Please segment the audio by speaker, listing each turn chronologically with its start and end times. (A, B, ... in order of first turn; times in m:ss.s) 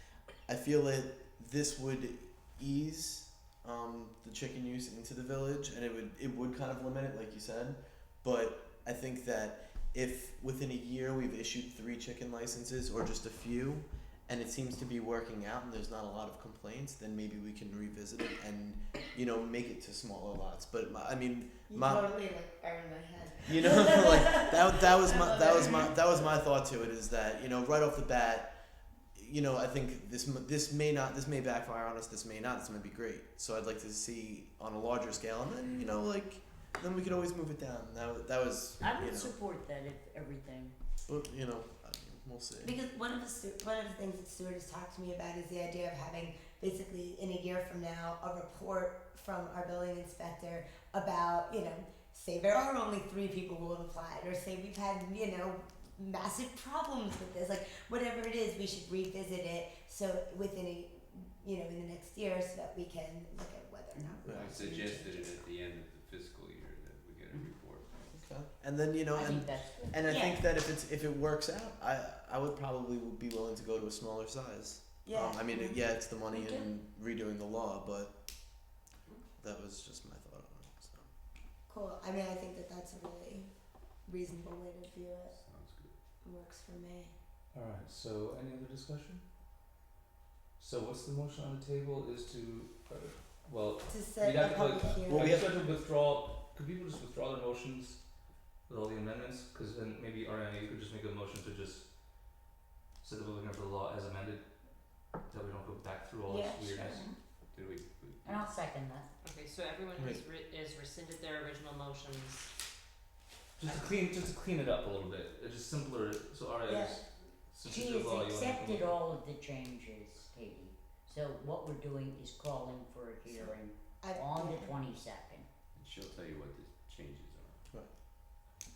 0:00.5-0:22.1 A
0:21.7-0:26.0 B
0:23.5-0:28.5 A
0:29.2-0:39.3 A
0:38.9-0:40.7 C
0:41.1-0:42.8 A
0:42.6-1:05.4 B
1:04.2-1:04.6 A
1:04.3-1:07.9 D
1:08.1-1:18.1 A
1:09.2-1:09.9 C
1:10.0-1:10.4 B
1:15.0-1:16.7 B
1:19.4-1:21.1 A
1:21.7-1:23.5 B
1:24.0-1:25.4 B
1:25.3-1:26.0 D
1:26.2-1:27.2 B
1:27.5-1:29.2 E
1:30.6-1:38.1 E
1:33.9-1:35.4 B
1:35.1-1:35.6 A
1:38.7-1:41.9 E
1:43.0-1:47.0 E
1:46.3-1:47.1 B
1:47.5-1:48.6 D
1:48.2-1:49.1 C
1:49.2-1:52.5 F
1:53.6-1:58.9 E
1:53.6-1:53.9 F
1:56.7-1:57.0 B
1:57.7-2:05.5 C
2:03.3-2:04.8 B
2:05.8-2:07.6 D